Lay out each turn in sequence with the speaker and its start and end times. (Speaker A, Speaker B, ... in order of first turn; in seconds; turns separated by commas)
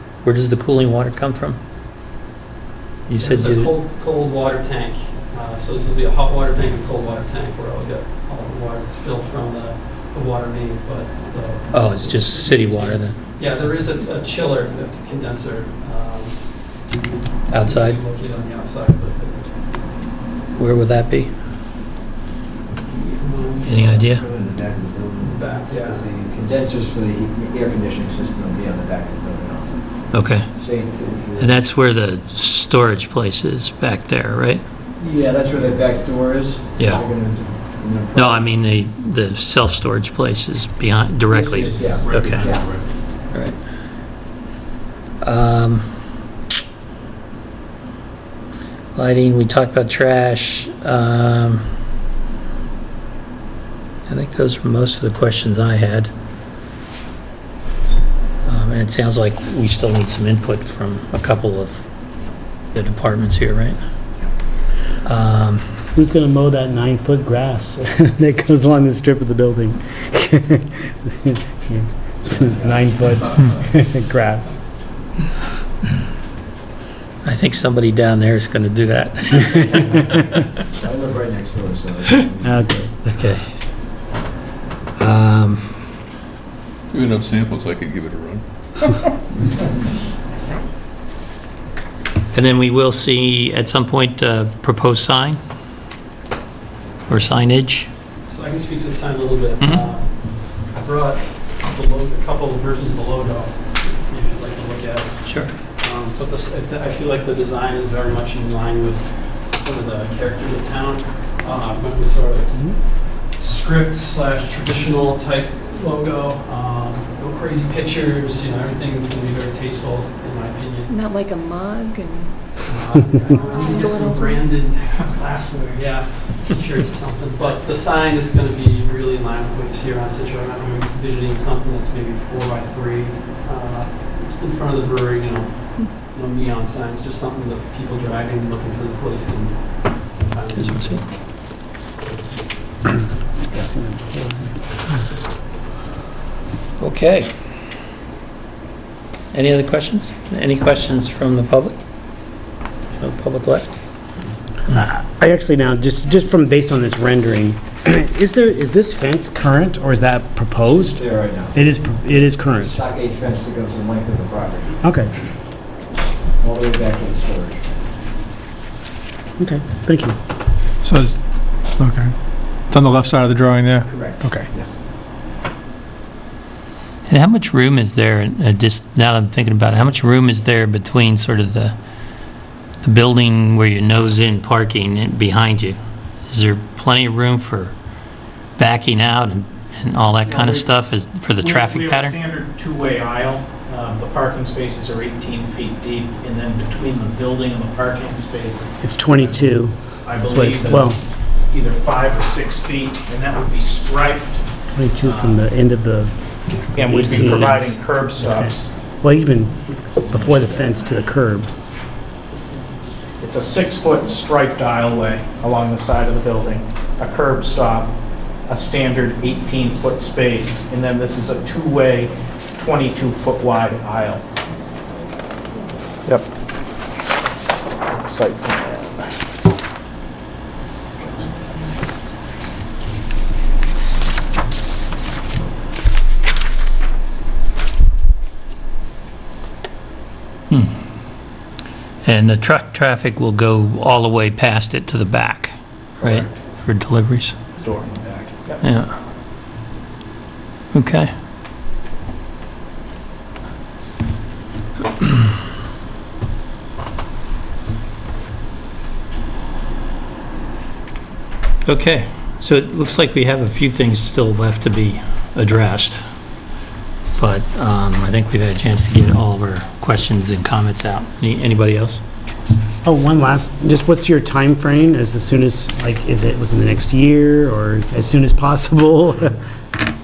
Speaker A: 0.2-1.6, Speaker A: 3.1-3.7, Speaker B: 3.2-20.1, Speaker A: 11.7-13.2, Speaker A: 17.5-18.0, Speaker A: 20.5-21.3, Speaker B: 22.9-24.0, Speaker A: 23.6-24.2, Speaker C: 23.9-31.6, Speaker B: 25.2-26.1, Speaker A: 30.1-30.4, Speaker A: 31.4-34.6, Speaker C: 35.0-38.5, Speaker A: 36.8-37.0, Speaker A: 38.1-42.7, Speaker C: 41.3-42.7, Speaker D: 41.6-42.9, Speaker A: 43.3-43.6, Speaker A: 45.2-45.9, Speaker A: 48.9-51.6, Speaker A: 54.1-56.1, Speaker A: 58.4-61.9, Speaker A: 62.7-63.8, Speaker A: 65.0-65.6, Speaker E: 65.9-74.6, Speaker A: 77.2-80.4, Speaker C: 80.8-82.7, Speaker E: 82.4-83.1, Speaker A: 83.1-83.5, Speaker A: 85.0-85.8, Speaker D: 86.9-89.1, Speaker A: 92.3-95.4, Speaker A: 97.1-97.9, Speaker B: 98.3-120.9, Speaker A: 105.2-105.5, Speaker F: 120.9-122.6, Speaker B: 122.6-141.2, Speaker F: 123.2-124.4, Speaker A: 140.5-141.0, Speaker E: 143.5-144.6, Speaker A: 146.8-147.3, Speaker A: 149.3-151.8, Speaker A: 152.9-153.7, Speaker E: 154.7-161.0, Speaker C: 160.6-161.7, Speaker E: 161.5-162.8, Speaker C: 162.5-164.8, Speaker E: 164.8-165.1, Speaker C: 166.4-167.8, Speaker E: 169.4-170.2, Speaker G: 170.8-171.2, Speaker G: 171.8-172.1, Speaker G: 172.7-174.5, Speaker C: 173.8-174.7, Speaker A: 177.1-181.7, Speaker A: 182.8-187.7, Speaker A: 188.6-192.2, Speaker H: 190.3-190.6, Speaker H: 191.4-199.4, Speaker E: 198.8-201.0, Speaker H: 200.0-205.4, Speaker E: 204.7-211.5, Speaker H: 206.7-208.7, Speaker H: 213.2-224.2, Speaker H: 227.8-229.2, Speaker H: 231.0-231.4, Speaker A: 242.0-247.3, Speaker H: 247.6-248.6, Speaker A: 248.6-248.9, Speaker A: 250.7-251.1, Speaker A: 261.6-266.0, Speaker A: 267.1-272.0, Speaker E: 272.8-279.3